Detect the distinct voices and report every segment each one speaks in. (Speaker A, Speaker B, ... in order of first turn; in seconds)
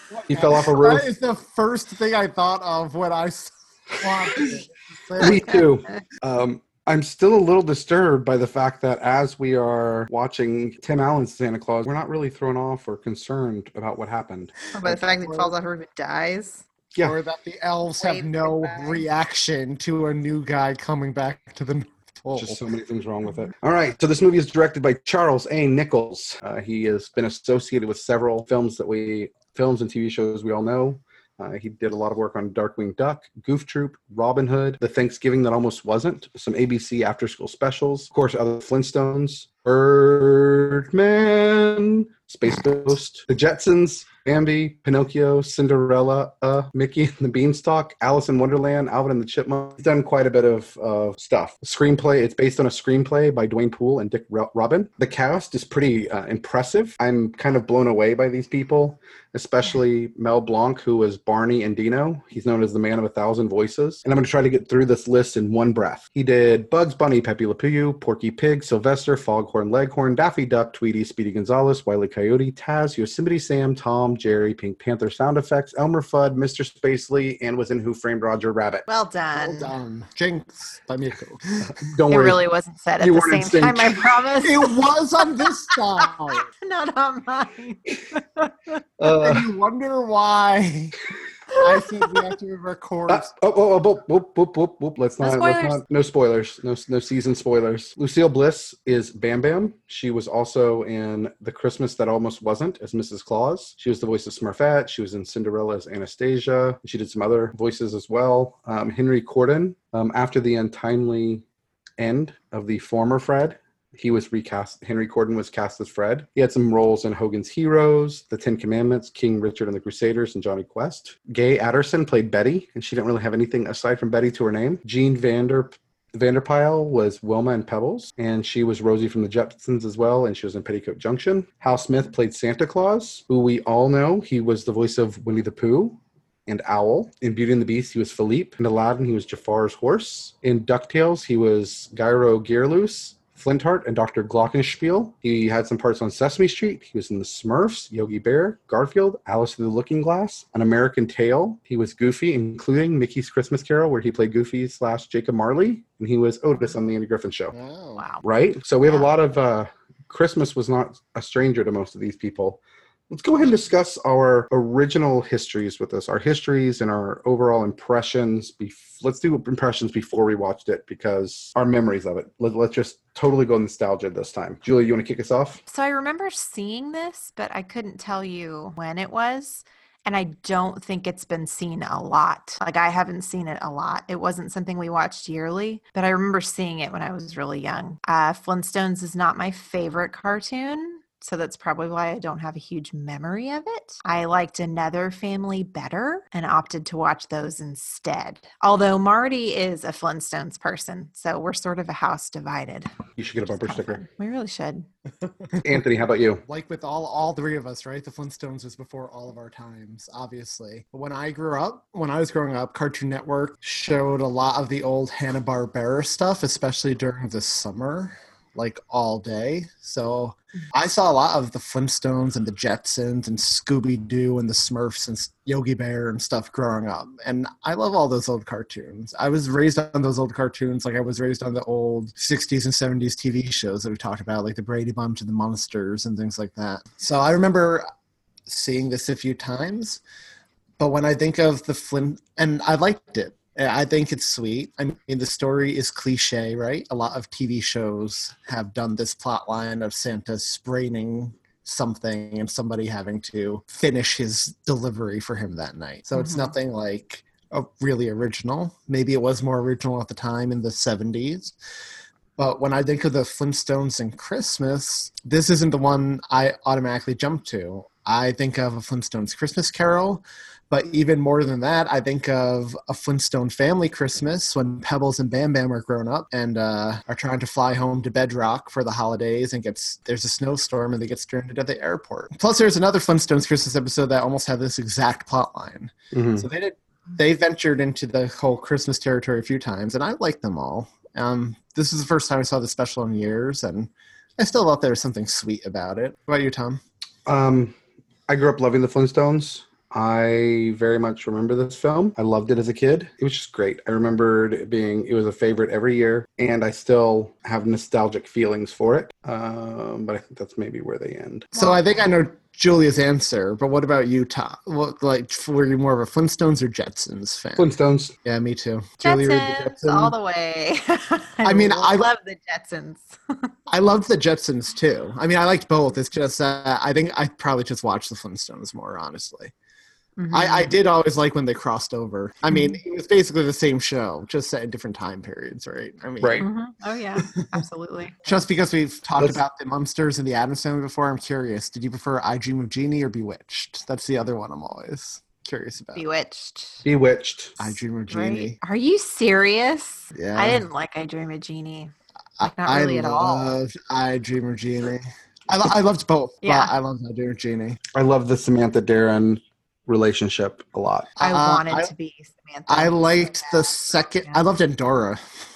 Speaker A: 0.3-1.1, 5.2-14.6, 22.4-78.8, 81.7-82.4, 83.0-84.1, 89.0-89.5, 93.1-111.4, 112.0-157.5, 158.2-175.6, 203.2-204.0, 205.6-206.4, 286.1-286.4, 297.2-297.7, 298.3-311.5, 317.6-318.1, 346.8-347.6, 357.9-361.1
Speaker B: 0.3-5.6, 14.8-15.5, 17.0-22.6, 79.3-81.7, 84.4-86.5, 89.2-91.0, 91.6-93.3, 157.5-158.0, 206.4-237.9, 238.4-240.0, 240.8-261.6, 262.4-296.8, 311.5-317.7, 318.2-320.1, 321.4-322.1, 323.7-329.5, 330.3-336.5, 338.2-346.0, 347.6-348.6, 350.1-350.6, 352.4-357.8, 361.2-361.9, 362.7-365.2
Speaker C: 14.7-16.6, 18.0-19.0, 78.9-79.7, 82.1-84.8, 86.1-88.5, 95.2-95.8, 158.0-158.2, 175.7-202.9, 203.5-204.9, 256.1-256.5, 311.6-311.9, 319.0-323.5, 330.2-330.7, 336.4-338.1, 345.9-346.8, 348.1-351.9, 352.4-353.5, 356.4-356.7, 361.2-364.4